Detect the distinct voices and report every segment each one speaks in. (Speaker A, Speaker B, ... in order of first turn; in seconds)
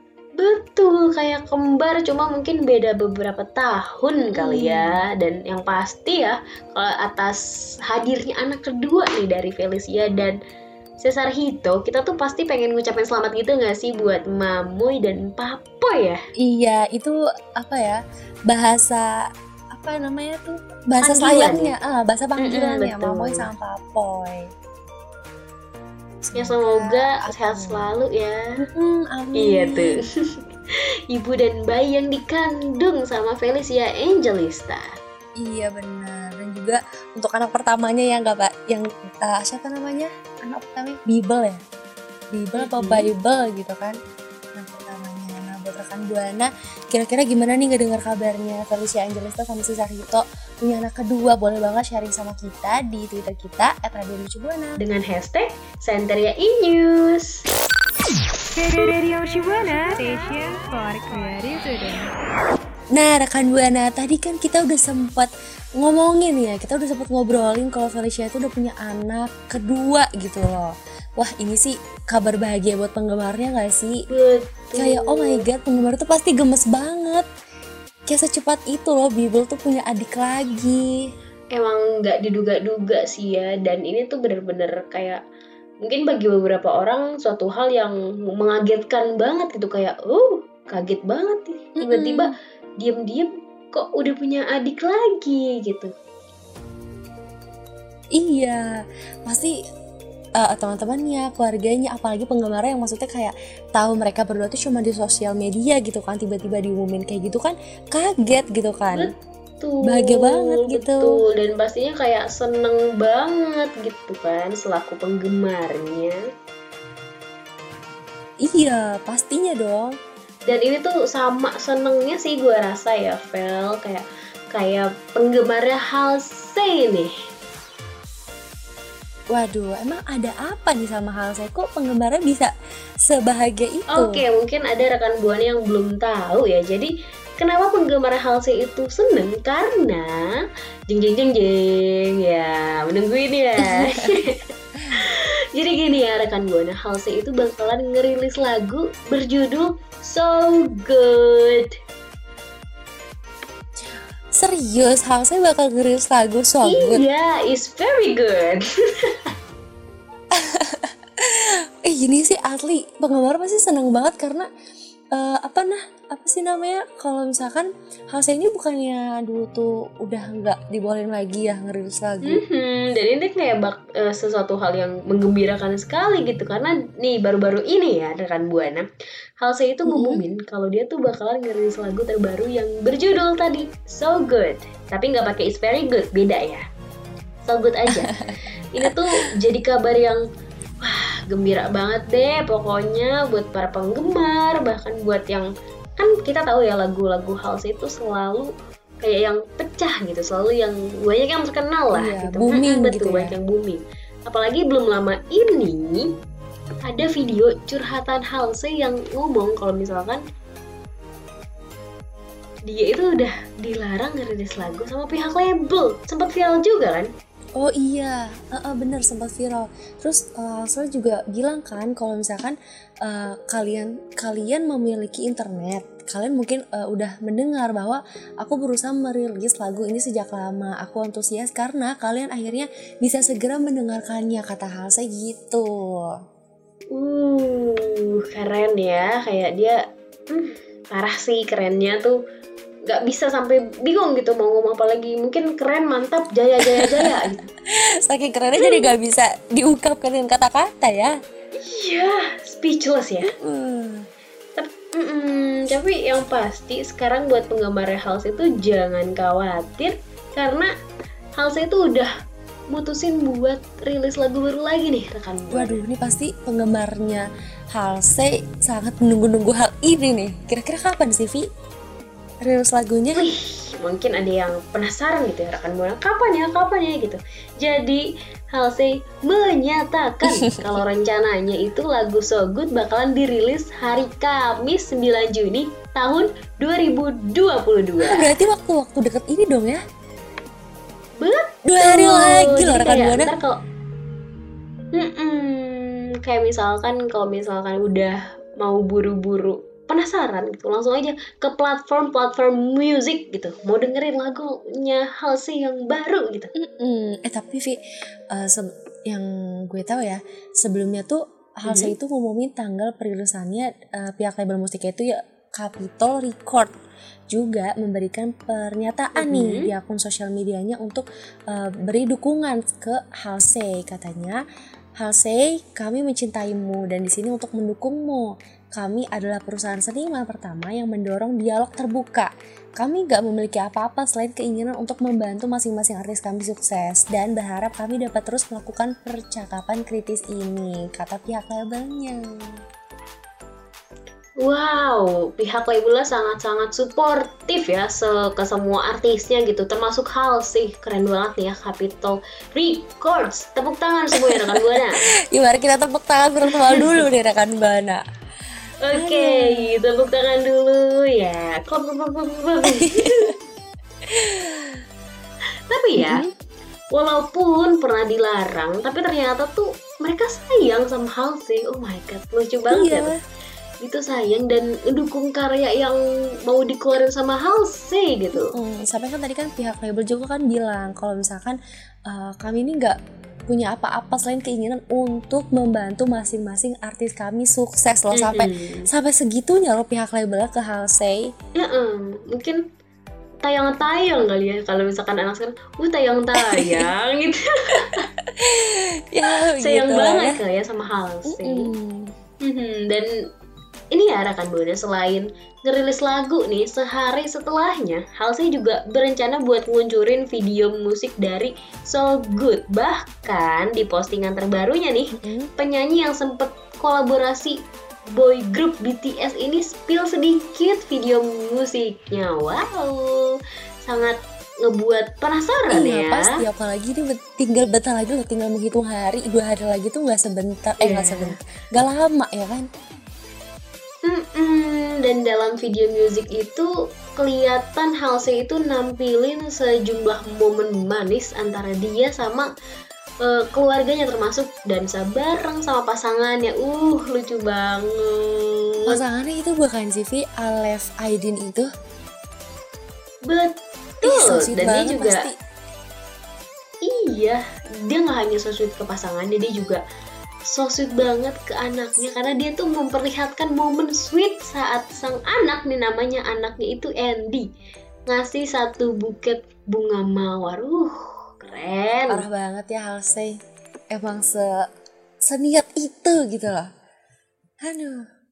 Speaker A: 0.4-10.3, 11.0-16.2, 21.0-21.7, 22.4-23.5, 26.4-28.4, 29.4-30.3, 31.1-34.9, 42.6-43.1, 54.8-57.4, 74.1-75.4, 81.5-85.2, 85.8-95.9, 108.9-116.2, 120.5-127.1, 133.9-140.2, 140.9-144.4, 144.9-151.7, 156.6-159.3, 172.2-178.8, 179.4-186.6, 187.4-188.1, 188.7-190.2, 190.8-198.5, 199.0-206.1, 206.8-210.2, 212.7-217.1, 236.9-239.8, 240.3-242.2, 242.9-247.5, 248.6-248.9, 251.6-253.3, 254.6-260.7, 261.4-262.1, 262.7-265.8, 273.1-288.3, 291.2-293.6, 294.9-306.5, 311.6-311.9, 319.1-319.7, 344.4-355.0, 356.5-356.9, 358.8-363.3, 365.7-366.2, 366.9-373.1, 373.8-378.6, 388.1-388.9, 391.6-392.6, 393.4-398.1, 399.6-401.7, 402.4-403.1, 403.9-417.6, 418.1-423.3, 423.8-426.3, 430.8-431.4, 434.0-442.5, 443.2-449.0, 453.3-455.3, 456.8-459.8, 460.5-467.5, 468.1-472.2
Speaker B: 4.3-5.0, 16.4-24.5, 26.2-27.9, 28.7-29.9, 35.4-41.6, 42.3-44.0, 44.5-54.8, 62.9-74.0, 74.8-77.3, 78.1-80.9, 91.8-92.3, 98.1-98.7, 99.2-99.5, 100.4-109.1, 109.8-111.2, 118.4-120.0, 129.3-132.5, 133.0-134.2, 143.6-144.2, 144.8-145.1, 154.3-157.0, 160.3-164.5, 165.1-172.4, 179.9-180.2, 201.9-203.3, 217.6-236.1, 246.6-251.2, 253.2-254.1, 265.5-271.5, 272.4-273.2, 280.3-280.8, 288.0-289.8, 291.6-293.3, 306.6-307.8, 308.3-316.7, 317.3-324.4, 325.0-342.6, 354.1-354.8, 355.3-358.0, 358.9-359.7, 362.7-363.3, 364.1-364.8, 366.0-366.3, 372.7-373.2, 378.4-391.3, 396.4-396.9, 397.8-400.4, 401.3-402.1, 415.1-415.5, 425.7-432.7, 448.9-451.7, 454.0-455.3, 472.1-473.4, 473.9-474.7, 475.3-476.7, 477.6-478.1
Speaker C: 58.5-62.1